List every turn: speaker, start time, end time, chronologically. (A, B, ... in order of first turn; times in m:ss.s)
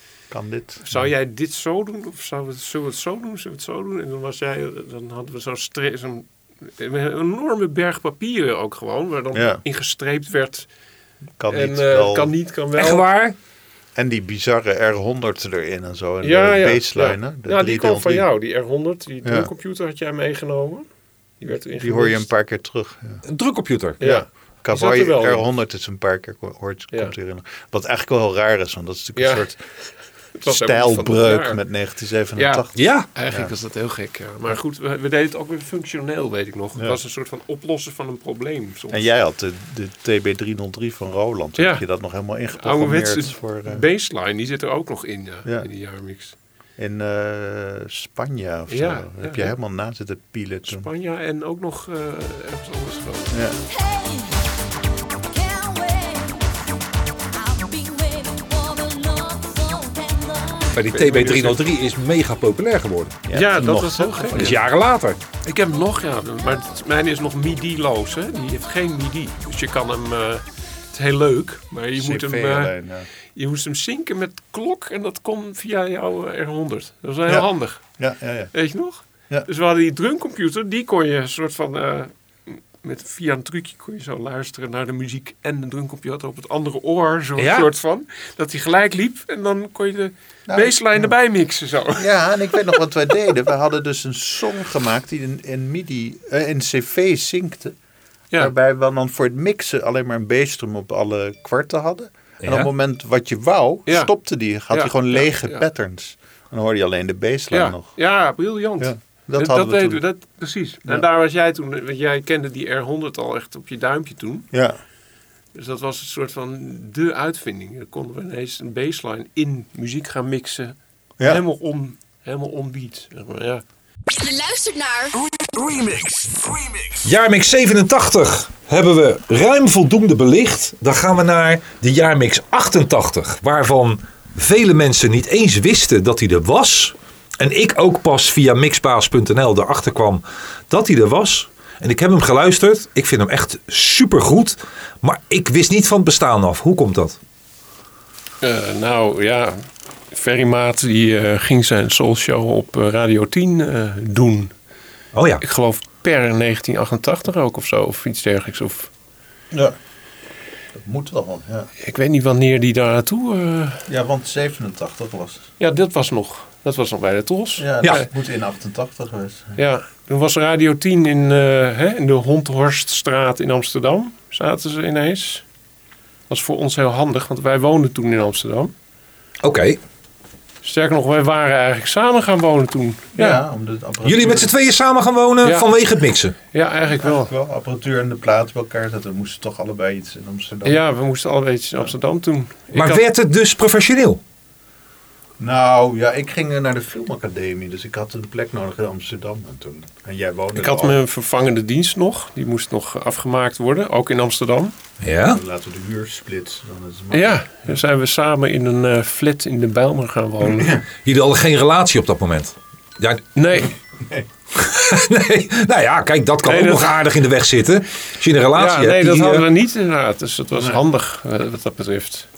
0:00.3-0:00.8 A
0:00.8-0:10.7 B
0:09.3-0:09.6 A
0:11.4-0:12.3 A
0:11.5-0:13.0 B
0:12.7-0:13.4 C
0:13.9-0:18.3 A
0:16.2-0:20.8 B
0:19.2-0:19.5 A
0:21.4-0:22.3 B
0:21.8-0:23.2 A
0:23.2-0:24.0 C
0:24.0-0:25.4 B
0:24.0-0:29.6 A
0:29.2-0:29.5 B
0:30.3-0:31.6 B
0:30.5-0:33.5 A
0:32.4-0:39.1 B
0:32.7-0:33.1 C
0:38.9-0:43.9 A
0:41.6-0:41.8 B
0:42.5-0:46.4 B
0:46.8-0:50.9 A
0:48.7-0:49.5 B
0:50.6-0:53.4 B
0:53.3-0:53.6 A
0:53.7-0:54.5 D
0:55.3-0:56.5 D
0:57.3-1:00.9 D
1:00.7-1:03.2 C
1:00.9-1:01.6 B
1:03.2-1:04.6 A
1:03.3-1:04.6 B
1:04.3-1:05.2 C
1:05.4-1:12.7 B
1:12.0-1:13.1 A
1:13.3-1:17.8 B
1:17.3-1:18.5 A
1:18.5-1:32.8 B
1:27.4-1:27.7 C
1:30.5-1:31.1 A
1:31.9-1:37.8 A
1:38.4-1:47.9 A
1:42.4-1:42.7 C
1:43.9-1:44.1 B
1:44.7-1:45.6 B
1:47.5-1:54.5 B
1:48.8-1:50.0 A
1:54.5-1:54.8 A
1:55.5-2:03.6 B
2:01.2-2:01.4 A
2:04.1-2:05.1 D
2:05.1-2:07.1 E
2:07.0-2:27.2 C
2:28.4-2:34.5 B
2:35.1-2:35.4 C
2:35.4-2:38.9 B
2:39.5-2:39.8 A
2:40.7-2:41.7 A
2:41.8-2:43.8 B
2:43.9-2:45.5 A
2:45.6-2:48.1 B
2:47.6-2:49.6 A
2:49.6-2:55.4 B
2:56.3-2:58.7 B
2:59.4-2:59.8 C
3:00.6-3:03.4 B
3:03.2-3:04.5 A
3:04.0-3:06.4 C
3:05.4-3:05.7 B
3:06.5-3:07.3 B
3:07.0-3:10.8 A
3:10.6-3:13.0 B
3:12.7-3:14.2 C
3:15.4-3:21.0 A
3:20.5-3:24.7 B
3:25.0-3:25.4 C
3:25.3-3:27.7 A
3:27.1-3:30.8 B
3:30.5-3:30.8 A
3:31.0-3:33.2 C
3:33.3-3:33.7 B
3:34.5-3:39.4 C
3:36.4-3:37.0 B
3:38.5-3:42.3 B
3:40.6-3:40.8 A